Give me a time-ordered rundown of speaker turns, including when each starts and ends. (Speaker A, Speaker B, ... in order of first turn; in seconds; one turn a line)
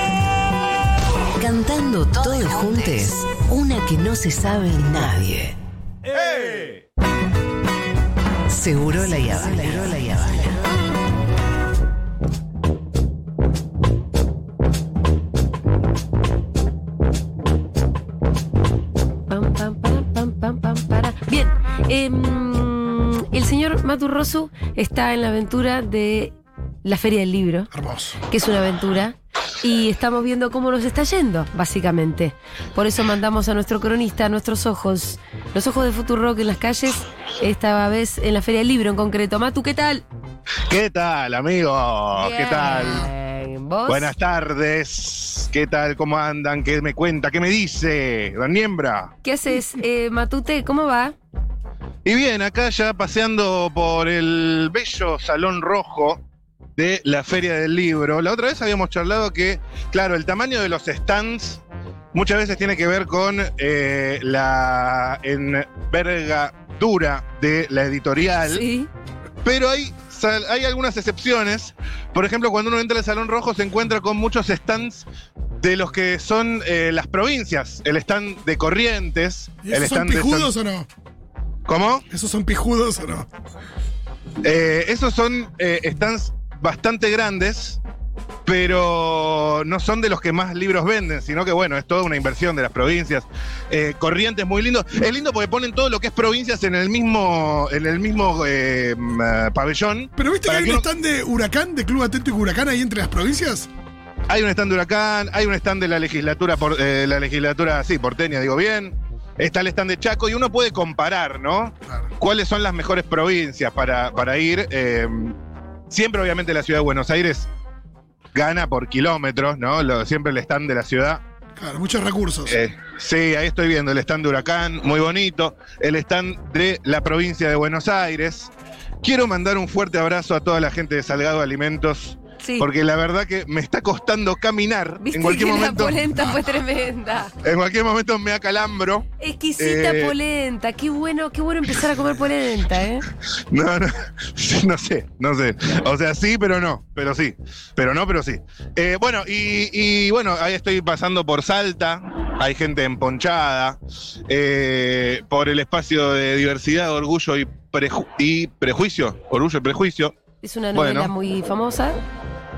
Speaker A: 1.4-5.5
Speaker B: 6.0-6.8
Speaker A: 8.5-10.6
Speaker C: 9.4-9.8
Speaker C: 19.3-26.3
Speaker C: 26.8-27.7
Speaker D: 27.7-28.2
Speaker C: 28.3-40.0
Speaker B: 40.7-43.1
Speaker C: 42.1-44.1
Speaker B: 43.9-49.1
Speaker C: 49.2-51.1
Speaker B: 52.0-56.2
Speaker B: 56.8-61.6
Speaker B: 62.1-68.6
Speaker C: 68.5-68.9
Speaker B: 69.4-75.0
Speaker B: 75.6-80.5
Speaker D: 79.6-80.9
Speaker B: 81.7-82.0
Speaker D: 82.1-83.3
Speaker B: 84.4-87.8
Speaker B: 88.4-100.8
Speaker D: 100.2-103.7
Speaker B: 104.3-115.4
Speaker B: 115.9-117.5
Speaker B: 118.3-121.2
Speaker D: 121.6-122.6
Speaker B: 122.5-128.5
Speaker B: 129.0-136.2
Speaker C: 132.4-132.7
Speaker C: 135.0-137.3
Speaker B: 137.4-139.1
Speaker C: 139.2-143.1
Speaker B: 139.6-140.2
Speaker B: 143.5-160.1
Speaker C: 160.4-162.0
Speaker B: 160.7-161.1